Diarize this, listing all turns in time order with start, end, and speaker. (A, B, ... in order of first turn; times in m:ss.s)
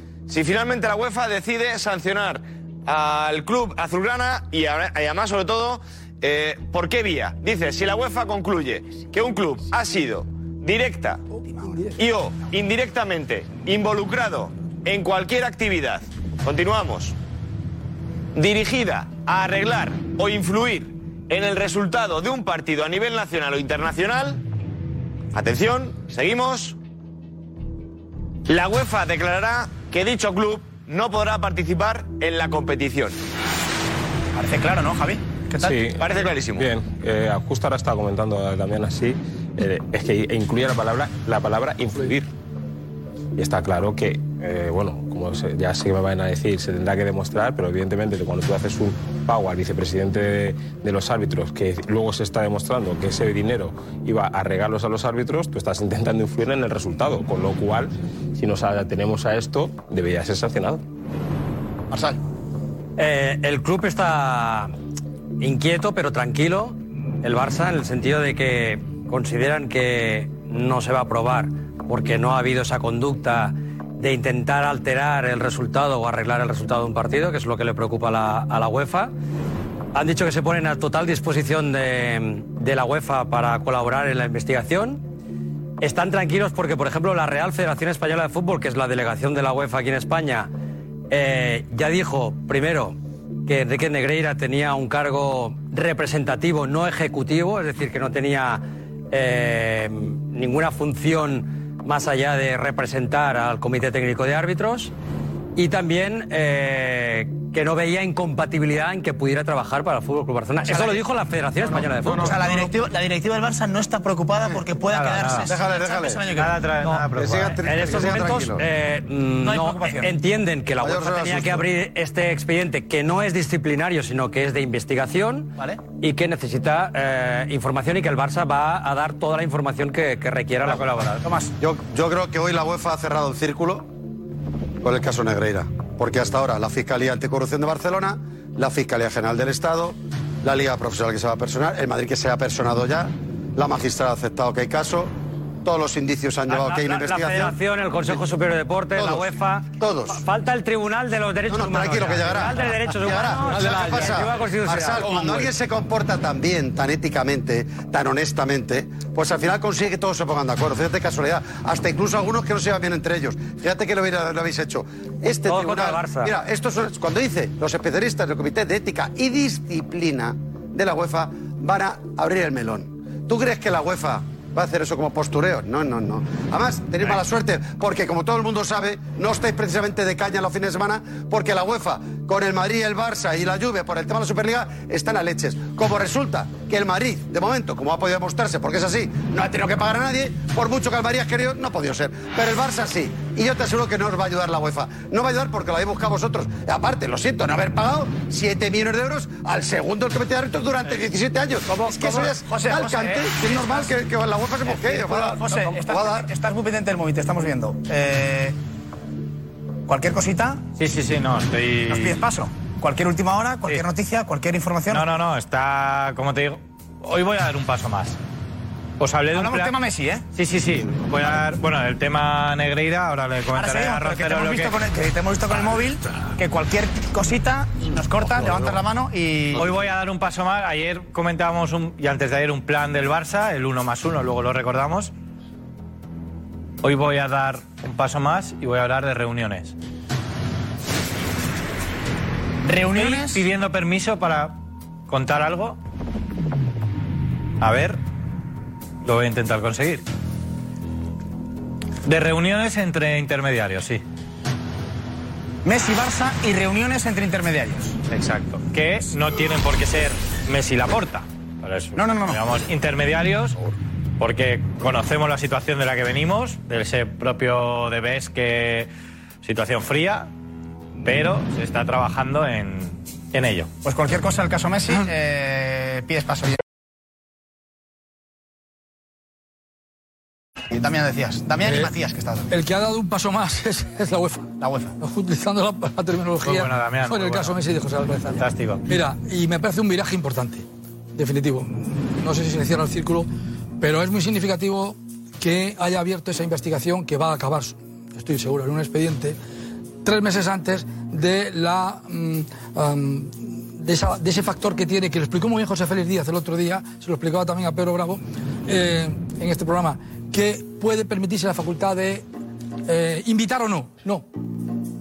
0:00.3-0:11.2 A
0:11.5-0:12.0 B
0:12.0-0:17.2 A
0:18.4-0:24.4 A
0:25.3-0:26.8 A
0:28.5-0:33.2 A
0:34.4-0:35.8 C
0:35.6-0:36.0 D
0:36.0-0:36.7 A
0:36.6-0:42.3 D
0:43.4-1:00.8 D
1:01.9-1:02.2 C
1:03.0-1:04.7 E
1:05.4-1:19.1 E
1:19.9-1:25.0 E
1:25.8-1:30.5 E
1:31.1-1:44.9 E
1:45.6-1:52.4 E
1:52.1-1:52.4 F
1:52.1-1:56.6 C
1:54.9-1:55.5 G
1:55.4-1:56.5 F
1:56.3-1:57.6 G
1:57.1-1:58.6 F
1:57.6-2:11.2 E
1:59.4-2:00.1 C
2:00.8-2:01.7 F
2:11.2-2:11.5 C
2:11.6-2:13.9 F
2:14.8-2:25.1 F
2:25.6-2:27.6 F
2:26.5-2:35.5 E
2:29.0-2:29.3 F
2:29.8-2:30.2 F
2:31.5-3:26.3 F
2:45.4-2:46.4 E
3:21.7-3:22.2 E
3:22.1-3:23.3 C
3:24.7-3:28.6 C
3:29.9-3:30.6 C
3:30.8-3:32.2 G
3:31.9-3:35.1 C
3:34.9-3:38.2 G
3:39.0-3:39.7 G
3:39.3-3:40.2 C
3:40.4-3:44.8 G
3:43.5-3:49.7 C
3:49.5-3:55.1 G
3:56.8-3:59.7 G
4:02.6-4:03.5 C
4:03.0-4:04.6 G
4:05.1-4:05.8 G
4:07.6-4:08.0 G
4:09.0-4:10.0 G
4:12.1-4:14.0 G
4:15.6-4:18.0 C
4:18.1-4:23.6 G
4:22.0-4:22.4 C
4:24.2-4:28.9 G
4:29.4-4:30.3 G
4:31.0-4:33.7 G
4:33.8-4:36.6 C
4:40.7-4:42.5 C
4:41.6-4:41.9 B
4:42.5-4:44.5 B
4:44.6-4:45.0 C
4:45.0-4:50.6 B
4:46.4-4:47.6 G
4:48.3-4:48.8 G
4:51.2-4:53.3 B
4:53.8-4:59.4 B
5:00.0-5:12.2 B
5:12.9-5:14.2 B